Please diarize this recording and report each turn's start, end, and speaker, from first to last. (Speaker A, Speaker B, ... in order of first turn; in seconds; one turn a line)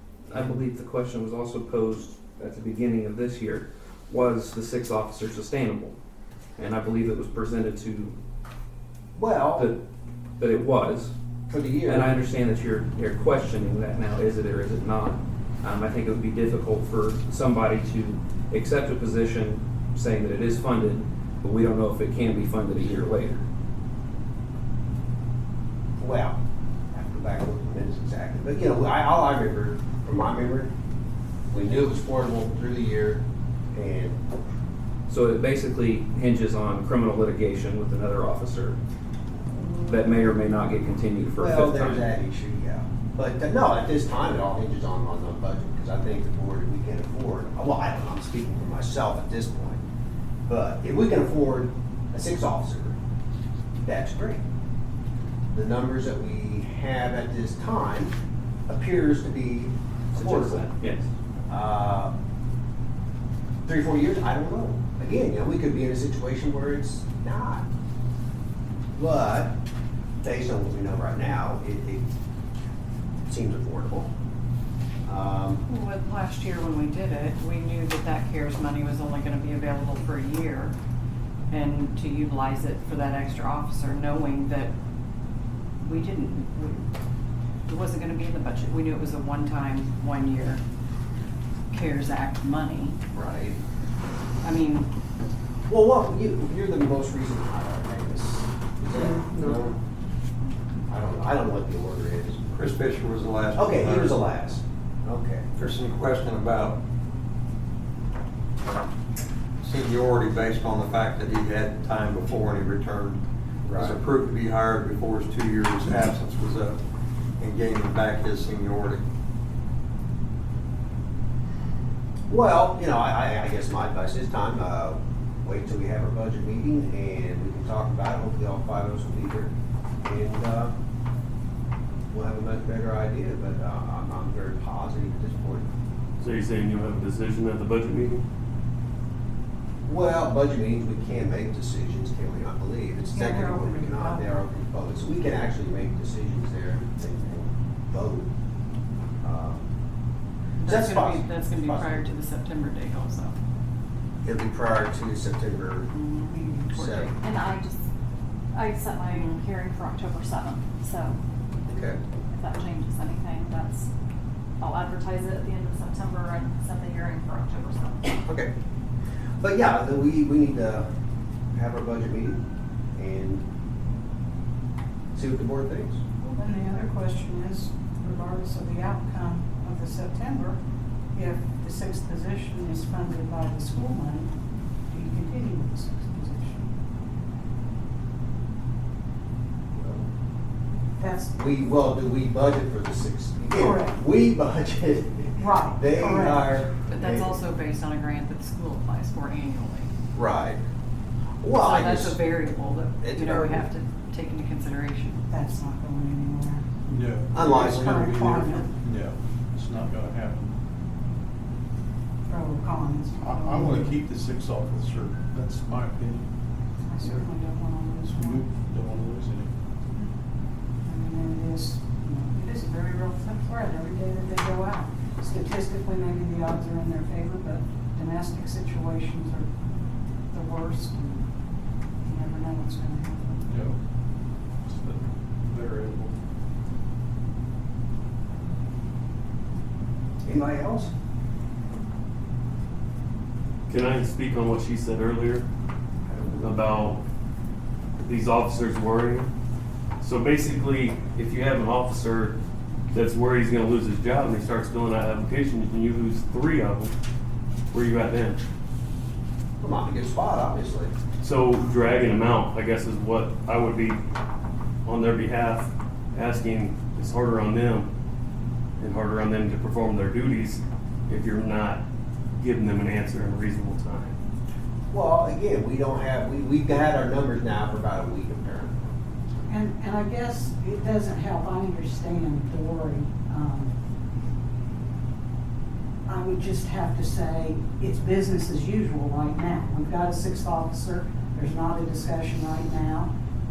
Speaker A: 0.3-6.0
Speaker A: 6.6-8.2
Speaker B: 9.1-9.7
Speaker A: 10.4-11.1
Speaker B: 11.5-12.1
Speaker A: 11.8-23.4
Speaker B: 26.0-26.4
Speaker B: 26.9-30.7
Speaker B: 31.5-33.2
Speaker B: 33.7-34.2
Speaker A: 35.1-38.8
Speaker A: 39.8-42.1
Speaker B: 41.4-49.8
Speaker B: 50.5-53.0
Speaker B: 53.8-54.4
Speaker B: 55.5-58.1
Speaker B: 58.7-60.6
Speaker A: 60.1-61.1
Speaker B: 61.5-62.1
Speaker B: 63.6-67.7
Speaker B: 68.9-69.5
Speaker B: 70.2-72.1
Speaker B: 73.3-74.1
Speaker B: 75.0-75.6
Speaker C: 75.7-80.7
Speaker C: 81.5-84.7
Speaker C: 85.8-86.8
Speaker C: 87.7-90.6
Speaker C: 91.7-93.0
Speaker B: 93.1-93.6
Speaker C: 94.4-94.9
Speaker B: 95.7-99.8
Speaker A: 99.0-99.6
Speaker B: 100.9-102.5
Speaker D: 102.5-104.2
Speaker B: 103.5-105.5
Speaker D: 105.5-106.8
Speaker D: 109.6-113.2
Speaker B: 113.6-114.0
Speaker D: 113.7-116.8
Speaker D: 117.4-119.0
Speaker B: 122.3-129.5
Speaker B: 130.0-130.7
Speaker B: 132.1-135.7
Speaker E: 136.2-138.2
Speaker B: 139.8-148.3
Speaker F: 143.1-144.3
Speaker B: 149.2-149.7
Speaker C: 150.6-153.3
Speaker B: 150.6-152.1
Speaker B: 154.2-155.9
Speaker C: 155.9-157.2
Speaker F: 156.3-156.8
Speaker B: 156.7-157.1
Speaker G: 157.2-157.8
Speaker G: 158.5-161.2
Speaker C: 159.1-159.4
Speaker B: 161.7-162.0
Speaker G: 162.3-163.9
Speaker G: 164.6-168.1
Speaker B: 168.2-168.5
Speaker B: 169.4-170.9
Speaker B: 171.5-172.4
Speaker B: 172.9-173.4
Speaker B: 175.1-176.0
Speaker F: 176.2-180.6
Speaker F: 181.1-184.3
Speaker F: 184.9-186.7
Speaker B: 189.7-190.1
Speaker F: 191.0-191.3
Speaker B: 191.3-197.4
Speaker F: 193.5-194.0
Speaker F: 195.4-196.8
Speaker C: 196.9-199.9
Speaker B: 200.1-200.6
Speaker B: 201.4-202.2
Speaker C: 201.6-205.2
Speaker B: 203.0-203.7
Speaker F: 205.3-206.8
Speaker H: 206.9-210.5
Speaker B: 207.3-208.3
Speaker F: 207.6-208.7
Speaker F: 212.2-214.0
Speaker H: 213.2-216.3
Speaker F: 216.8-218.5
Speaker H: 218.1-219.5
Speaker F: 220.8-229.5
Speaker F: 230.3-231.3
Speaker F: 232.0-233.5
Speaker H: 233.5-233.8
Speaker H: 234.6-236.1
Speaker B: 240.2-240.9
Speaker E: 243.7-245.4
Speaker B: 246.1-246.5
Speaker E: 246.4-247.0
Speaker E: 248.0-249.3
Speaker E: 250.0-252.4
Speaker E: 252.9-256.9
Speaker E: 257.7-258.4
Speaker B: 259.6-260.9
Speaker E: 261.2-264.0
Speaker E: 264.9-267.9
Speaker E: 268.8-271.8
Speaker E: 272.4-274.1
Speaker B: 274.9-278.7
Speaker F: 279.5-283.8
Speaker F: 286.1-293.1